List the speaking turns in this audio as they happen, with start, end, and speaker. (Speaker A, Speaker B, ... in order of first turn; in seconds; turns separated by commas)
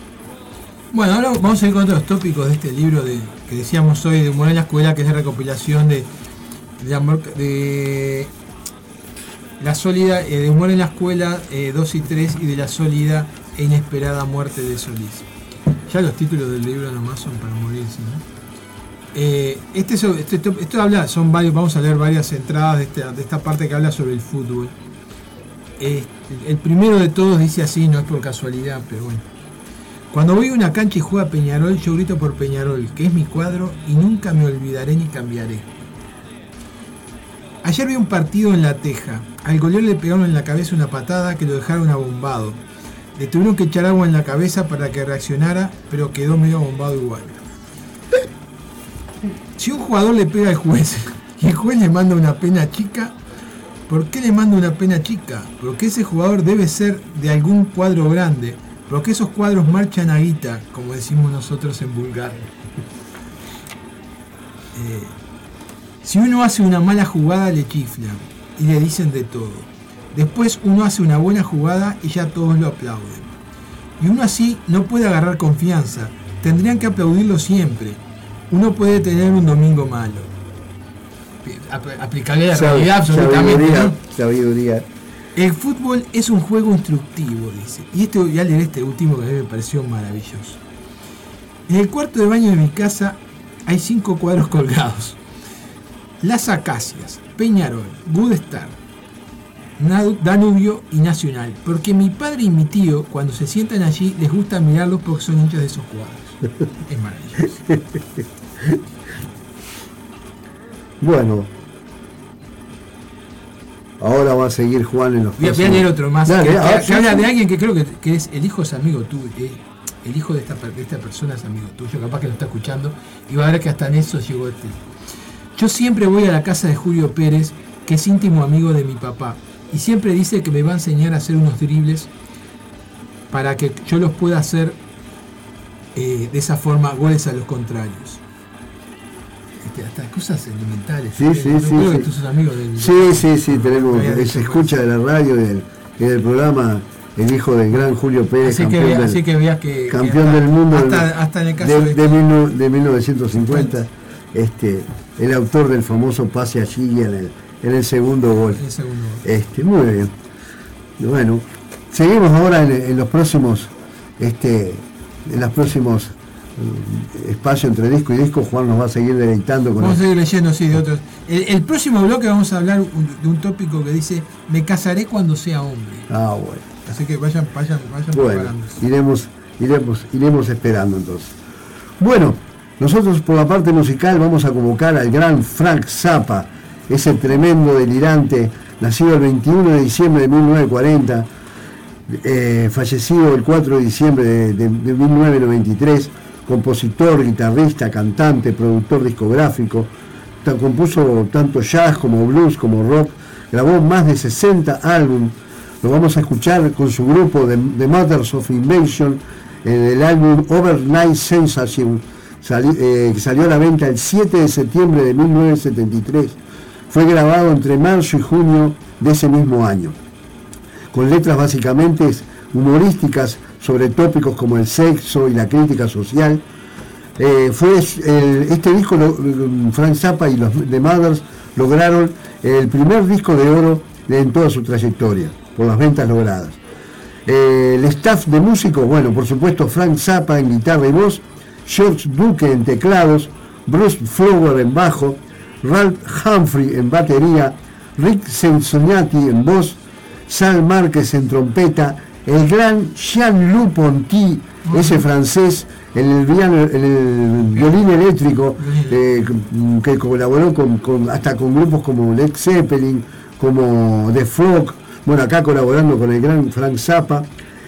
Speaker A: 0.9-6.1, Speaker A: 6.8-8.3, Speaker A: 9.6-15.3, Speaker A: 15.9-18.2, Speaker A: 19.1-24.7, Speaker A: 25.8-29.2, Speaker A: 30.1-35.7, Speaker A: 37.6-42.6, Speaker A: 43.1-47.4, Speaker A: 49.6-53.2, Speaker A: 53.9-62.5, Speaker A: 64.7-65.2, Speaker A: 66.0-73.3, Speaker A: 74.0-80.3, Speaker A: 81.4-84.0, Speaker B: 82.5-84.9, Speaker A: 85.3-90.6, Speaker A: 91.7-95.2, Speaker A: 96.2-98.8, Speaker A: 99.8-107.7, Speaker B: 111.0-111.5, Speaker B: 114.0-117.3, Speaker A: 115.4-124.8, Speaker A: 125.5-132.1, Speaker A: 133.3-134.8, Speaker A: 135.9-138.2, Speaker A: 139.6-144.7, Speaker B: 141.2-142.1, Speaker B: 142.8-149.2, Speaker A: 148.4-152.2, Speaker B: 149.9-158.6, Speaker A: 153.3-153.7, Speaker A: 158.5-159.2, Speaker B: 159.2-160.1, Speaker B: 161.0-170.0, Speaker A: 169.8-176.1, Speaker B: 176.1-176.6, Speaker A: 176.8-178.8, Speaker B: 178.1-181.4, Speaker B: 182.0-191.3, Speaker B: 192.1-199.9, Speaker B: 200.4-220.0, Speaker B: 220.9-226.4, Speaker B: 227.2-236.6, Speaker B: 237.2-267.3, Speaker A: 254.7-255.0, Speaker A: 258.6-259.3